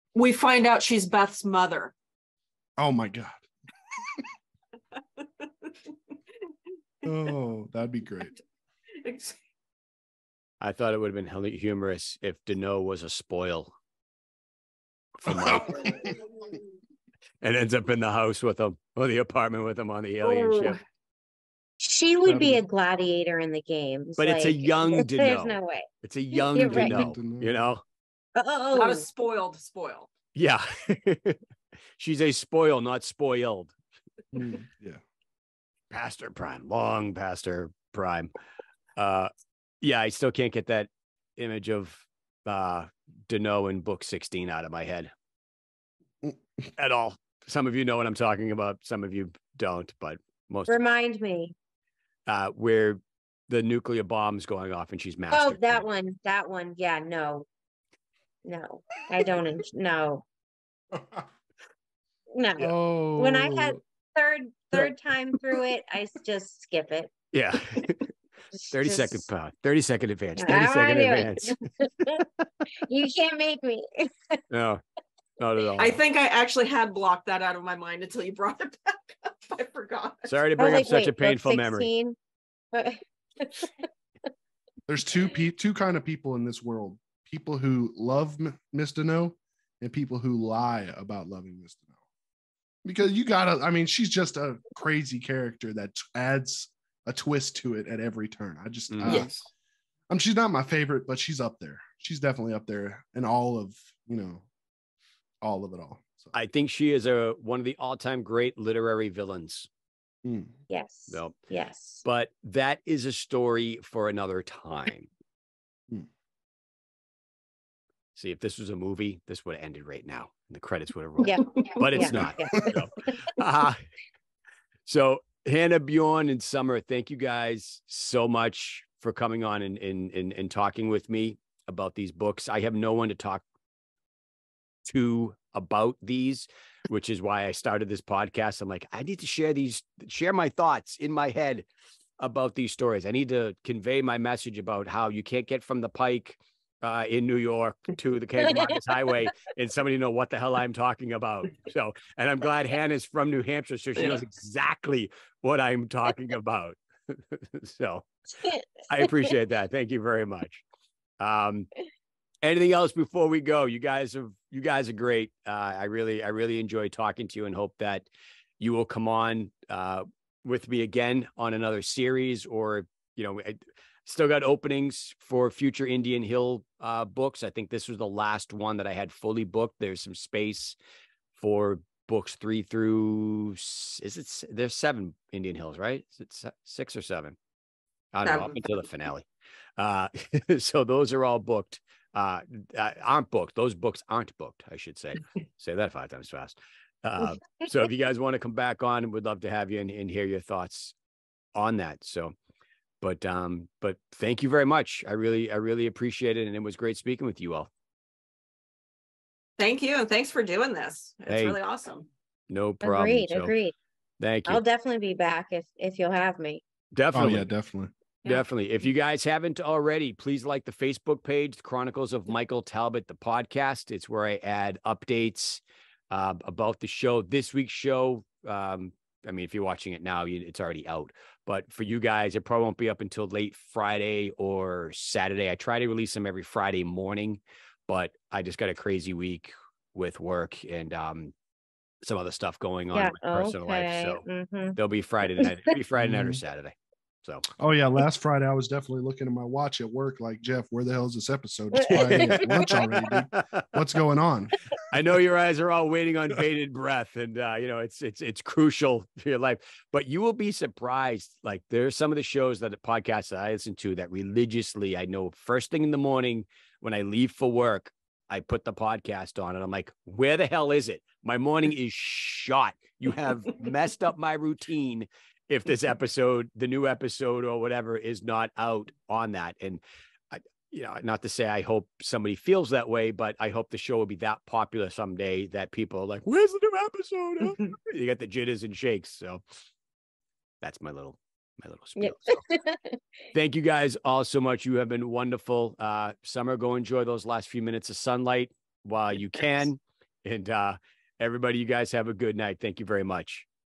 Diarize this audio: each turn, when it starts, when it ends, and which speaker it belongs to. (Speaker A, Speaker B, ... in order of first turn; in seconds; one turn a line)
Speaker A: 0.1-1.9
Speaker B: 2.8-3.5
Speaker A: 5.0-5.9
Speaker A: 7.0-7.3
Speaker B: 7.0-8.3
Speaker A: 9.0-9.4
Speaker C: 10.6-13.7
Speaker C: 15.2-16.0
Speaker B: 15.3-16.1
Speaker A: 15.4-16.6
Speaker C: 17.4-20.8
Speaker A: 20.2-20.8
Speaker D: 21.8-25.9
Speaker B: 22.2-22.6
Speaker C: 24.2-27.8
Speaker D: 26.5-27.0
Speaker B: 26.5-27.7
Speaker D: 28.4-29.0
Speaker A: 28.7-30.1
Speaker C: 30.3-31.4
Speaker C: 32.0-33.8
Speaker B: 34.3-35.0
Speaker C: 35.9-38.3
Speaker C: 39.0-39.3
Speaker C: 39.8-45.1
Speaker C: 46.8-50.8
Speaker D: 50.7-51.5
Speaker C: 52.3-55.8
Speaker D: 55.3-57.5
Speaker D: 58.4-60.2
Speaker B: 60.9-61.2
Speaker D: 62.3-67.1
Speaker B: 62.6-63.8
Speaker C: 67.3-68.1
Speaker C: 68.7-71.5
Speaker D: 68.8-69.2
Speaker D: 70.3-74.4
Speaker C: 74.5-74.8
Speaker C: 75.4-76.0
Speaker A: 75.8-80.4
Speaker C: 80.2-81.9
Speaker D: 80.6-82.2
Speaker D: 82.7-83.9
Speaker B: 84.9-91.9
Speaker B: 92.8-99.3
Speaker C: 98.9-99.3
Speaker A: 99.0-99.5
Speaker B: 100.1-104.5
Speaker B: 105.4-106.3
Speaker C: 106.3-109.7
Speaker B: 110.2-110.5
Speaker D: 110.7-112.0
Speaker C: 111.1-111.3
Speaker C: 112.0-115.1
Speaker C: 118.1-123.9
Speaker D: 121.2-123.3
Speaker A: 121.6-122.1
Speaker C: 124.8-133.4
Speaker C: 134.8-141.7
Speaker C: 142.2-158.1
Speaker D: 158.4-159.1
Speaker C: 158.9-160.6
Speaker C: 161.2-161.7
Speaker C: 162.4-168.1
Speaker C: 168.6-180.8
Speaker C: 181.4-187.4
Speaker C: 188.1-189.3
Speaker A: 188.2-188.5
Speaker C: 189.8-200.9
Speaker C: 201.6-202.3
Speaker C: 203.0-207.7
Speaker A: 209.6-212.1
Speaker C: 211.3-211.6
Speaker C: 212.5-213.5
Speaker D: 212.8-213.7
Speaker C: 214.2-214.6
Speaker D: 214.5-216.6
Speaker C: 216.9-217.5
Speaker B: 217.1-217.9
Speaker C: 218.2-241.3
Speaker C: 242.0-244.2
Speaker D: 242.9-245.5
Speaker C: 244.8-247.5
Speaker B: 246.0-246.4
Speaker B: 247.6-254.6
Speaker D: 251.7-252.8
Speaker C: 252.6-253.7
Speaker C: 254.9-289.4
Speaker C: 290.6-292.4
Speaker D: 292.0-293.0
Speaker C: 293.3-303.5